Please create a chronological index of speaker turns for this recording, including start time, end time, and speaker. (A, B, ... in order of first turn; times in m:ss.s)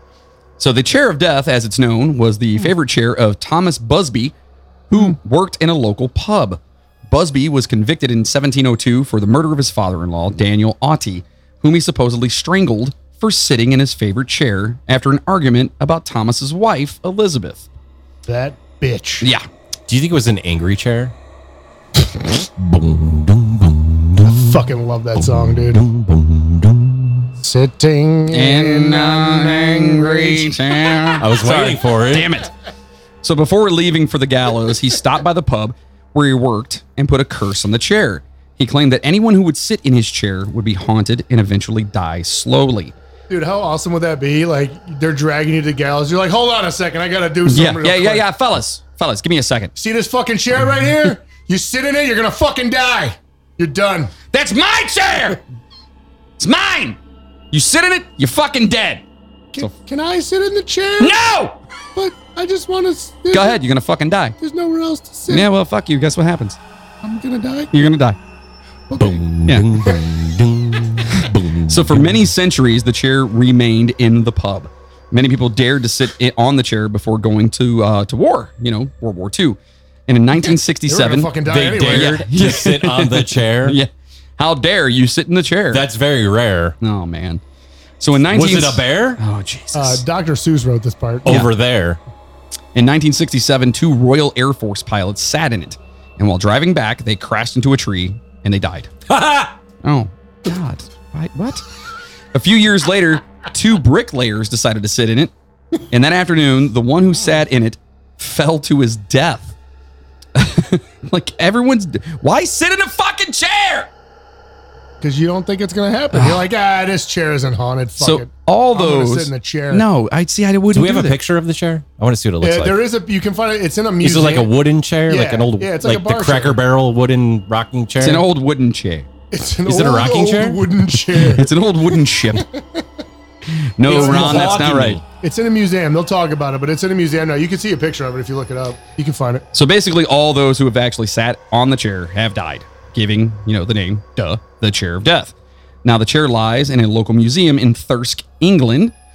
0:00.6-0:04.3 A
0:04.9-0:17.6 A
0:18.3-0:19.3 B
0:19.2-0:19.5 A
0:19.9-0:21.1 C
0:22.6-0:24.7 C
0:24.2-0:25.8 B
0:25.2-0:27.3 C
0:27.4-0:30.6 B
0:28.3-0:32.5 A
0:31.2-0:32.3 C
0:33.2-0:42.9 A
0:43.3-0:48.2 B
0:47.4-0:49.7 A
0:49.8-0:54.1 B
0:54.3-0:55.4 A
0:56.4-0:57.0 A
0:57.5-0:59.0 A
0:59.5-1:01.2 B
1:01.0-1:01.6 A
1:02.0-1:03.6 B
1:03.3-1:04.4 A
1:04.4-1:05.5 B
1:05.3-1:06.6 A
1:07.0-1:07.7 B
1:07.7-1:08.2 A
1:08.9-1:09.2 B
1:09.0-1:12.3 C
1:11.7-1:25.8 A
1:20.9-1:22.2 B
1:21.4-1:23.8 C
1:25.7-1:26.8 C
1:26.8-1:27.4 A
1:28.0-1:30.0 A
1:28.3-1:29.2 C
1:29.8-1:31.4 B
1:31.3-1:32.0 C
1:32.8-1:38.9 A
1:39.1-1:39.5 C
1:39.8-1:41.6 A
1:42.3-1:45.3 A
1:45.9-1:49.5 A
1:50.4-1:53.9 A
1:55.0-1:59.8 B
1:56.1-1:56.5 A
1:58.0-2:01.2 A
2:00.7-2:02.8 C
2:02.4-2:04.5 B
2:04.0-2:08.2 C
2:05.1-2:06.6 B
2:08.0-2:09.1 A
2:09.3-2:11.5 B
2:09.7-2:10.6 C
2:11.3-2:12.4 A
2:12.3-2:12.9 B
2:13.8-2:15.0 A
2:13.9-2:15.0 C
2:13.9-2:19.4 B
2:19.5-2:25.3 A
2:25.8-2:28.9 A